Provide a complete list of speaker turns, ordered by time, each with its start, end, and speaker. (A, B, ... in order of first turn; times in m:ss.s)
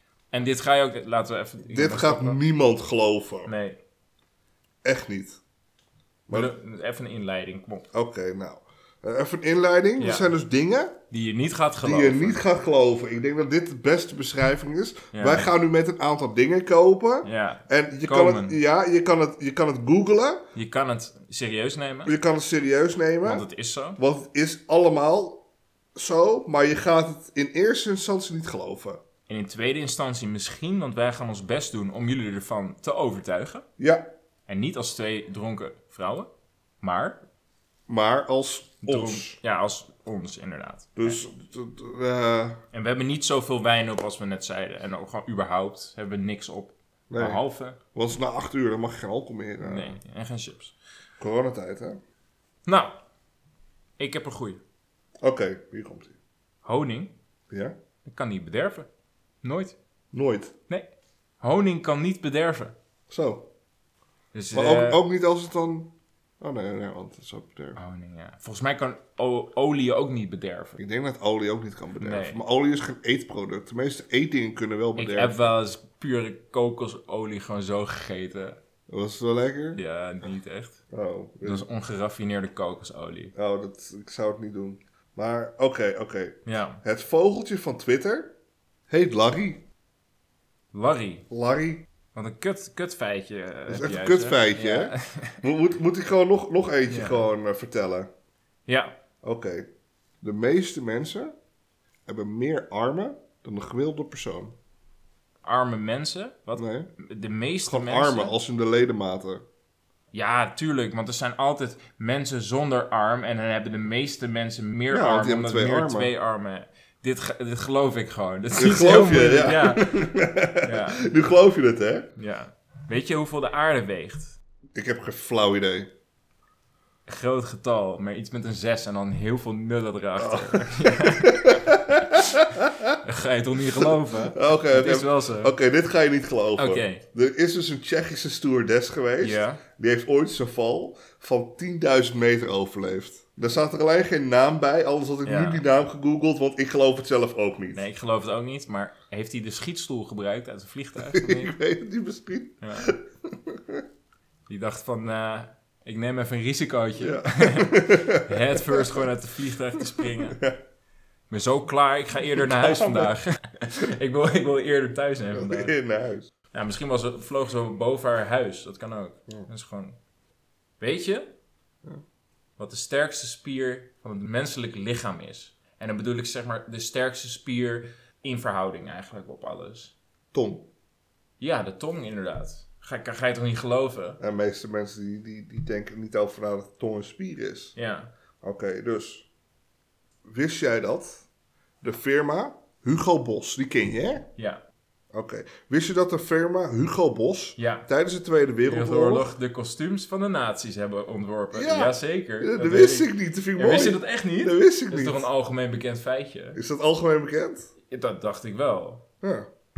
0:00.3-0:02.4 A
0:01.7-0:03.5 B
0:03.4-0:03.8 A
0:04.8-0:05.4 B
0:06.3-0:06.5 B
0:06.3-0:07.9 A
0:07.9-0:11.0 B
0:10.0-0:10.3 A
0:11.1-0:12.4 A
0:11.8-0:20.4 B
0:15.1-0:15.5 A
0:17.2-0:18.6 A
0:20.5-0:22.1 A
0:22.0-0:23.4 B
0:23.2-0:24.0 A
0:24.0-0:25.4 B
0:26.0-0:29.0 B
0:29.3-0:33.6 A
0:33.8-0:34.0 B
0:34.5-0:36.3 A
0:36.8-0:37.2 A
0:37.9-0:39.4 B
0:38.8-0:41.2 A
0:41.0-0:42.6 B
0:42.7-0:47.8 A
0:47.1-0:47.4 B
0:47.9-0:50.0 B
0:49.6-0:50.7 A
0:51.2-0:52.0 B
0:52.6-0:52.9 A
0:54.0-0:54.6 A
0:55.2-0:56.2 B
0:56.6-0:57.1 A
0:58.0-0:58.9 A
0:59.4-0:59.8 A
1:00.1-1:00.5 B
1:01.4-1:02.7 A
1:03.1-1:03.5 B
1:04.3-1:05.0 A
1:04.5-1:07.8 B
1:07.8-1:10.8 A
1:10.8-1:15.5 B
1:12.0-1:12.4 A
1:15.0-1:18.6 A
1:18.9-1:19.8 B
1:19.7-1:20.8 A
1:20.9-1:21.7 B
1:21.4-1:23.3 A
1:23.3-1:28.3 B
1:26.4-1:26.8 A
1:28.9-1:29.6 B
1:30.7-1:31.3 A
1:31.3-1:31.9 B
1:32.1-1:35.4 A
1:33.7-1:38.1 B
1:36.9-1:37.3 A
1:38.6-1:38.9 A
1:39.2-1:39.6 B
1:40.2-1:41.3 B
1:42.1-1:44.5 B
1:45.4-1:48.4 A
1:46.6-1:46.9 B
1:47.6-1:49.4 B
1:50.1-2:01.1 A
1:54.9-1:56.1 B
1:58.5-2:02.1 B
2:02.2-2:04.3 A
2:04.8-2:05.9 B
2:07.1-2:11.6 A
2:10.2-2:13.0 B
2:13.0-2:15.5 A
2:13.8-2:27.8 B
2:16.6-2:17.0 A
2:19.2-2:19.6 A
2:25.2-2:25.6 A
2:27.7-2:31.6 A
2:31.0-2:33.8 B
2:32.6-2:32.9 A
2:34.5-2:40.4 A
2:37.0-2:39.0 B
2:40.3-2:40.6 B
2:41.3-2:45.7 A
2:42.3-2:43.1 B
2:45.3-2:46.3 B
2:46.5-2:50.0 A
2:50.8-2:51.3 A
2:52.6-2:59.9 A
3:00.3-3:00.6 B
3:01.4-3:04.2 A
3:04.2-3:07.7 B
3:07.8-3:08.1 A
3:08.4-3:09.2 B
3:10.3-3:11.2 B
3:11.8-3:14.3 B
3:14.4-3:14.6 A
3:15.1-3:19.3 B
3:17.6-3:17.9 A
3:18.6-3:26.6 A
3:21.5-3:25.3 B
3:26.5-3:27.7 B
3:27.9-3:29.0 A
3:29.2-3:29.5 B